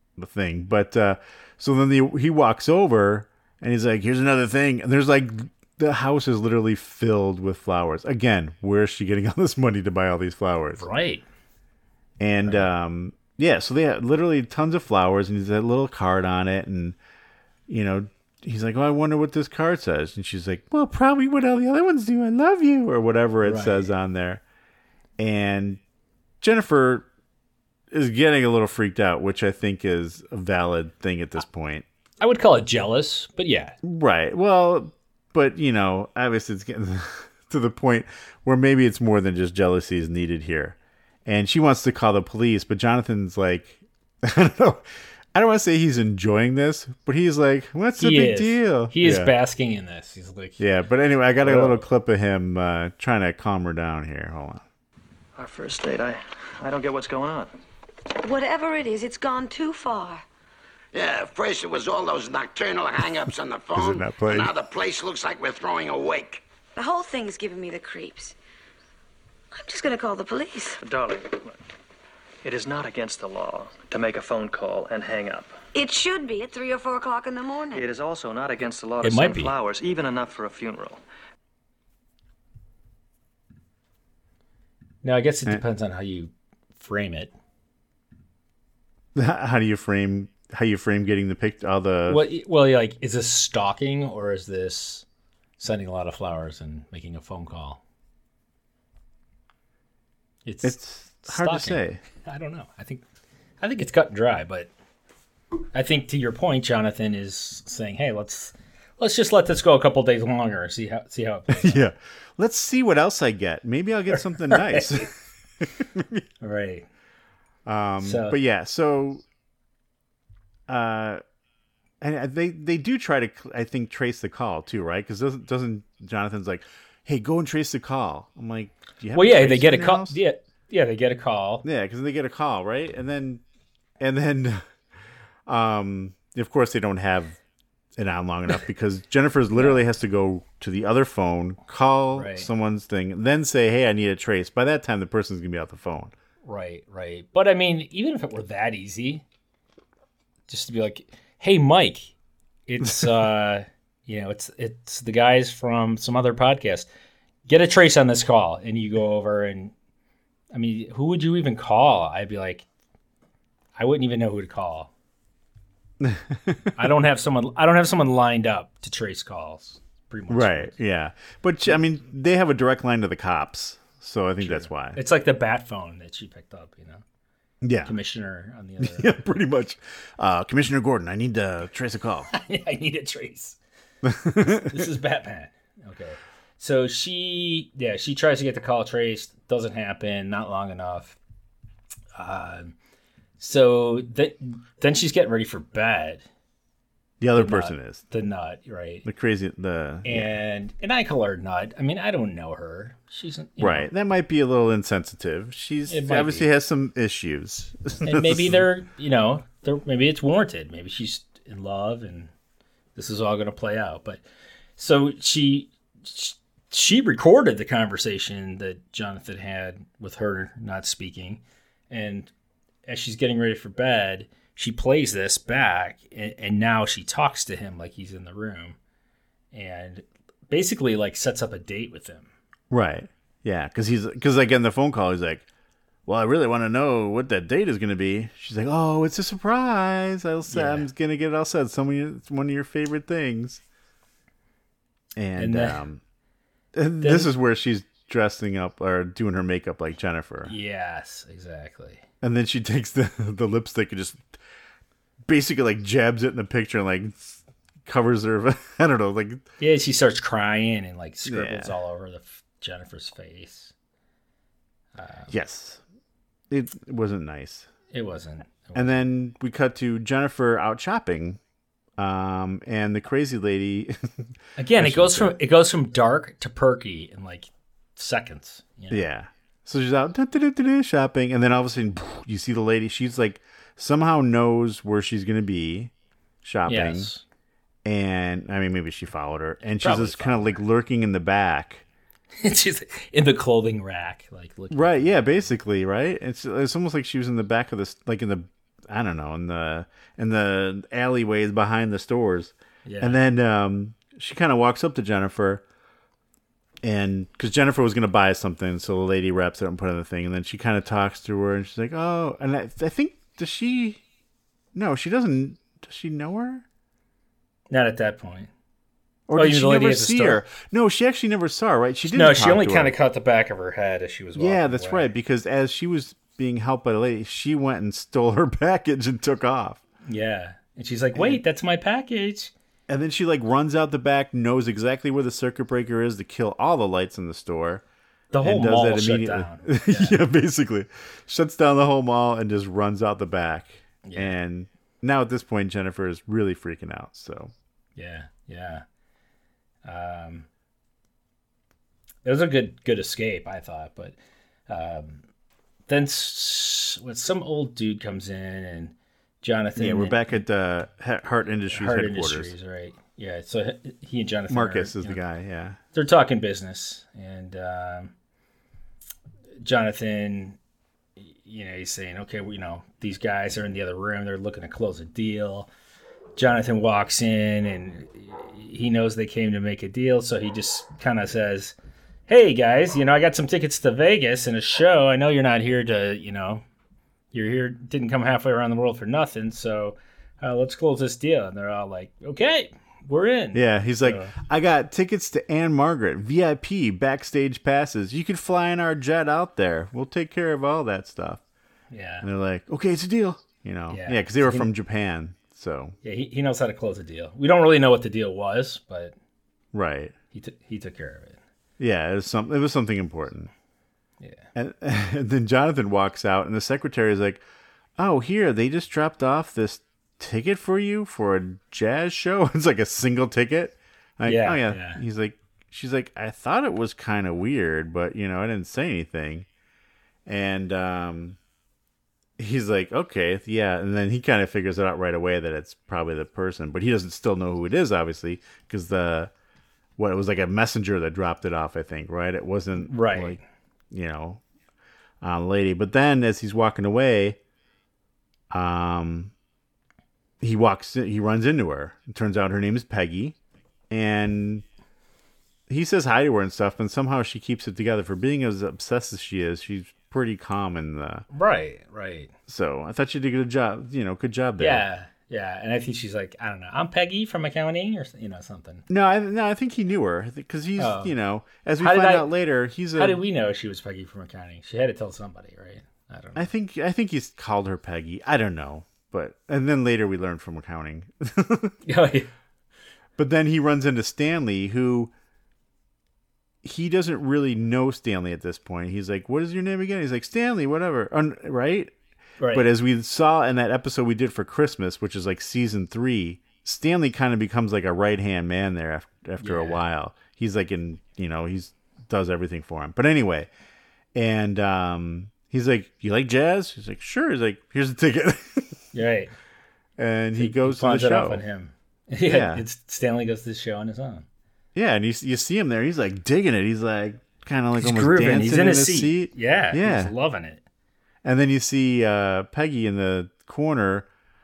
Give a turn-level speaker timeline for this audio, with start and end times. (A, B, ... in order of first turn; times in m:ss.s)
0:00.2-0:10.8 A
0:10.8-0:11.2 B
0:12.2-0:17.0 A
0:12.4-0:12.7 B
0:17.7-0:24.4 A
0:23.4-0:23.9 B
0:25.2-0:25.8 A
0:26.4-0:27.1 A
0:27.9-0:31.8 A
0:32.2-0:33.8 B
0:33.8-0:49.3 A
0:48.0-0:50.6 B
0:50.6-0:54.6 A
0:51.4-0:51.8 B
0:55.4-0:57.5 C
0:58.2-1:00.2 D
1:00.9-1:06.4 E
1:03.7-1:04.5 A
1:06.8-1:08.4 D
1:09.5-1:10.8 D
1:10.8-1:11.6 C
1:12.4-1:15.6 C
1:15.7-1:17.9 D
1:17.7-1:21.0 C
1:19.0-1:19.5 B
1:25.0-1:27.3 B
1:29.2-1:32.2 A
1:32.1-1:35.0 B
1:35.6-1:37.8 B
1:40.4-1:43.0 B
1:40.6-1:42.0 A
1:43.6-1:44.7 B
1:45.7-1:51.8 B
1:51.5-1:55.1 A
1:54.4-1:55.0 B
1:55.6-1:56.2 A
1:56.4-1:56.9 B
1:57.6-1:59.2 A
1:58.0-1:58.4 B
2:00.7-2:01.2 A
2:02.0-2:10.2 A
2:09.1-2:11.6 B
2:11.6-2:13.4 A
2:14.0-2:14.6 A
2:15.5-2:17.4 A
2:18.0-2:26.1 A
2:19.6-2:19.8 B
2:22.1-2:22.5 B
2:26.4-2:29.2 B
2:30.5-2:32.1 B
2:32.7-2:36.9 B
2:37.5-2:39.7 B
2:40.5-2:42.6 B
2:43.8-2:44.9 B
2:46.0-2:46.8 A
2:46.8-2:50.8 B
2:50.3-2:55.0 A
2:54.4-2:57.0 B
2:57.6-2:58.0 A
2:57.8-2:59.2 B
2:58.8-3:02.3 A
3:02.3-3:03.6 B
3:04.0-3:04.9 A
3:04.5-3:11.2 B
3:12.2-3:12.7 B
3:13.4-3:16.2 B
3:17.2-3:18.0 A
3:17.4-3:19.1 B
3:19.0-3:20.3 A
3:20.0-3:23.9 B
3:23.6-3:28.7 A
3:25.9-3:26.5 B
3:28.0-3:32.3 B
3:33.0-3:34.2 B
3:34.8-3:42.3 B
3:42.9-3:48.8 B
3:49.5-3:52.3 B
3:52.7-3:55.5 A
3:56.1-4:03.6 A
4:00.5-4:00.9 B
4:05.2-4:06.0 A
4:05.4-4:05.8 B
4:06.7-4:10.5 A
4:07.0-4:07.3 B
4:10.5-4:12.0 B
4:12.2-4:14.3 A
4:15.3-4:19.4 A
4:19.6-4:23.7 B
4:21.2-4:21.7 A
4:25.0-4:25.3 B
4:25.3-4:25.8 A
4:26.5-4:27.7 A
4:27.9-4:29.0 B
4:28.8-4:31.4 A
4:32.0-4:35.4 A
4:34.6-4:39.1 B
4:38.9-4:45.9 A
4:46.4-4:47.1 A
4:46.7-4:47.2 B
4:47.8-4:51.8 A
4:49.8-4:50.6 B
4:52.4-4:55.5 B
4:54.7-5:05.6 A
5:02.8-5:03.2 B
5:06.8-5:14.0 A
5:14.7-5:16.6 A
5:17.7-5:18.5 B
5:19.3-5:23.0 A
5:19.4-5:20.4 B
5:22.1-5:25.1 B
5:24.4-5:29.8 A
5:30.0-5:32.5 B
5:31.2-5:31.4 A
5:32.9-5:37.8 A
5:38.3-5:40.2 B
5:38.4-5:47.5 A
5:44.0-5:44.4 B
5:48.0-5:48.8 B
5:49.8-5:50.5 B
5:52.2-5:54.2 B
5:54.7-5:55.2 B
5:55.9-6:00.4 B
5:59.8-6:02.5 A
6:01.7-6:05.2 B
6:04.5-6:05.8 A
6:05.9-6:08.1 B
6:09.6-6:10.6 B
6:11.2-6:15.7 B
6:16.4-6:21.7 B
6:22.3-6:26.6 B
6:27.3-6:34.4 B
6:33.5-6:41.4 A
6:41.9-6:42.3 B
6:42.2-6:46.0 A
6:43.9-6:44.7 B
6:46.0-6:49.2 B
6:49.7-6:50.2 A
6:50.3-6:51.4 B
6:51.8-6:53.5 A
6:54.2-6:54.5 B
6:54.6-6:57.4 A
6:58.0-7:09.5 A
7:04.2-7:05.0 B
7:10.3-7:11.4 A
7:12.4-7:19.3 A
7:20.0-7:23.4 A
7:22.8-7:23.4 B
7:23.9-7:24.4 A
7:25.2-7:27.4 A
7:28.5-7:29.3 A
7:30.4-7:33.4 A
7:33.9-7:34.6 A
7:35.7-7:41.3 A
7:41.3-7:42.3 B
7:42.5-7:44.8 A
7:44.6-7:48.8 B
7:48.9-7:53.2 A
7:50.8-7:51.1 B
7:51.8-7:52.3 B
7:53.0-7:56.5 B
7:56.4-8:01.8 A
8:01.8-8:02.3 B
8:03.2-8:05.1 A
8:06.6-8:11.9 A
8:12.4-8:12.7 B
8:12.5-8:23.5 A
8:19.4-8:19.8 B
8:24.2-8:28.8 A
8:28.9-8:29.3 B
8:30.0-8:31.4 A
8:30.4-8:34.3 B
8:32.2-8:32.6 A
8:34.8-8:40.1 A
8:37.8-8:40.6 B
8:41.2-8:44.1 A